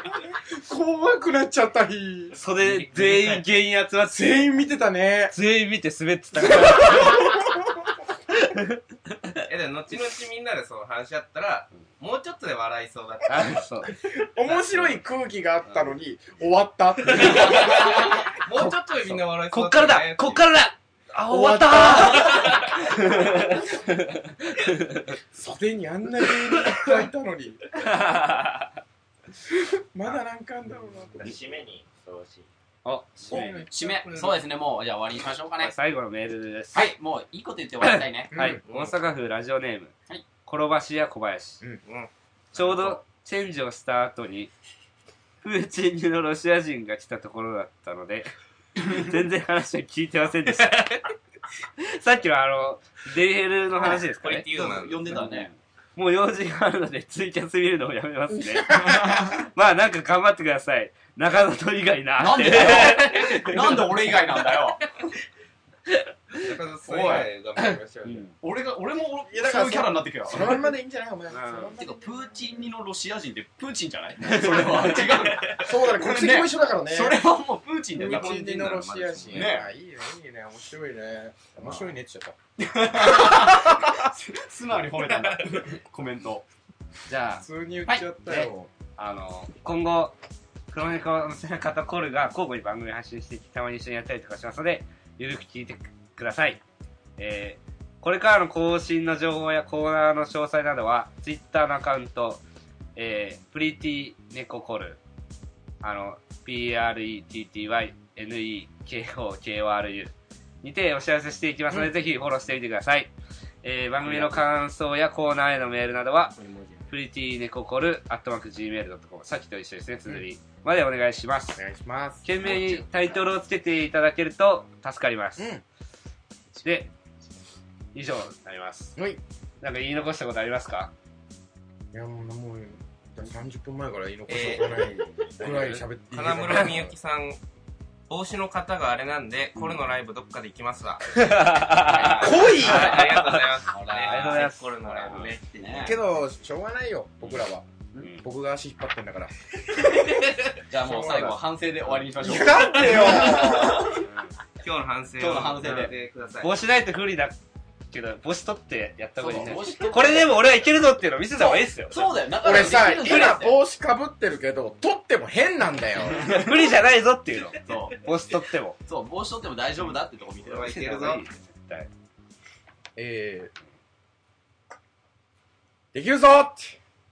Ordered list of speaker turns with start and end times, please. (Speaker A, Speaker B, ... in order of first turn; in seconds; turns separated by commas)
Speaker A: 0.5-2.4, Speaker B: 2.4-4.4, Speaker C: 2.6-3.5, Speaker A: 4.1-5.4, Speaker B: 5.3-7.5, Speaker A: 6.4-7.8, Speaker B: 8.3-9.4, Speaker C: 9.5-13.8, Speaker B: 13.3-13.9, Speaker A: 13.8-18.2, Speaker C: 14.5-14.9, Speaker B: 15.7-15.9, Speaker B: 17.2-17.9, Speaker C: 17.3-20.4, Speaker B: 18.6-25.2, Speaker A: 21.3-22.6, Speaker C: 22.4-22.7, Speaker A: 25.3-27.6, Speaker B: 27.8-28.7, Speaker A: 29.5-31.3, Speaker D: 31.2-32.5, Speaker B: 32.8-33.6, Speaker A: 33.2-34.1, Speaker E: 33.5-35.7, Speaker C: 33.8-34.4, Speaker B: 35.6-36.9, Speaker E: 36.7-38.3, Speaker B: 37.8-39.9, Speaker A: 38.3-38.6, Speaker C: 38.6-39.0, Speaker B: 40.5-41.6, Speaker C: 41.8-43.0, Speaker B: 42.5-44.5, Speaker B: 45.4-51.0, Speaker B: 51.8-54.5, Speaker C: 53.8-55.2, Speaker E: 54.5-55.5, Speaker B: 55.1-64.2, Speaker A: 58.6-59.4, Speaker E: 62.2-64.9, Speaker B: 65.9-66.5, Speaker C: 66.4-68.3, Speaker E: 66.8-67.3, Speaker B: 67.5-68.3, Speaker E: 68.4-70.6, Speaker A: 69.3-72.5, Speaker B: 71.3-71.8, Speaker E: 71.8-79.7, Speaker B: 74.2-75.0, Speaker A: 74.4-77.2, Speaker C: 75.0-75.6, Speaker A: 78.0-82.3, Speaker C: 78.0-79.5, Speaker E: 82.6-86.4, Speaker A: 82.9-84.1, Speaker C: 85.0-85.6, Speaker B: 87.1-87.4, Speaker A: 87.4-88.7, Speaker B: 88.3-90.1, Speaker B: 90.7-96.6, Speaker B: 97.2-102.4, Speaker B: 103.0-105.0, Speaker B: 105.8-113.1, Speaker B: 113.6-116.4, Speaker C: 114.1-114.4, Speaker C: 116.3-116.9, Speaker B: 116.9-121.6, Speaker A: 121.5-122.5, Speaker B: 122.2-125.5, Speaker A: 125.4-125.6, Speaker B: 126.6-126.9, Speaker B: 127.9-129.0, Speaker B: 129.6-130.9, Speaker A: 131.9-136.9, Speaker C: 134.3-137.4, Speaker D: 135.0-135.7, Speaker C: 138.1-146.0, Speaker B: 141.1-145.3, Speaker E: 141.7-144.5, Speaker A: 142.2-143.0, Speaker E: 145.5-146.0, Speaker A: 145.8-149.3, Speaker C: 150.1-150.4, Speaker E: 150.7-154.1, Speaker A: 150.7-151.4, Speaker A: 152.2-154.0, Speaker B: 154.0-154.3, Speaker C: 154.6-156.5, Speaker E: 155.2-155.9, Speaker B: 155.7-157.4, Speaker B: 157.9-162.1, Speaker E: 159.2-160.4, Speaker A: 161.4-161.7, Speaker E: 161.9-163.6, Speaker A: 162.4-166.4, Speaker B: 166.2-168.8, Speaker E: 167.6-168.0, Speaker E: 168.8-170.8, Speaker C: 170.4-171.2, Speaker B: 170.6-171.9, Speaker A: 172.9-173.5, Speaker A: 175.9-176.8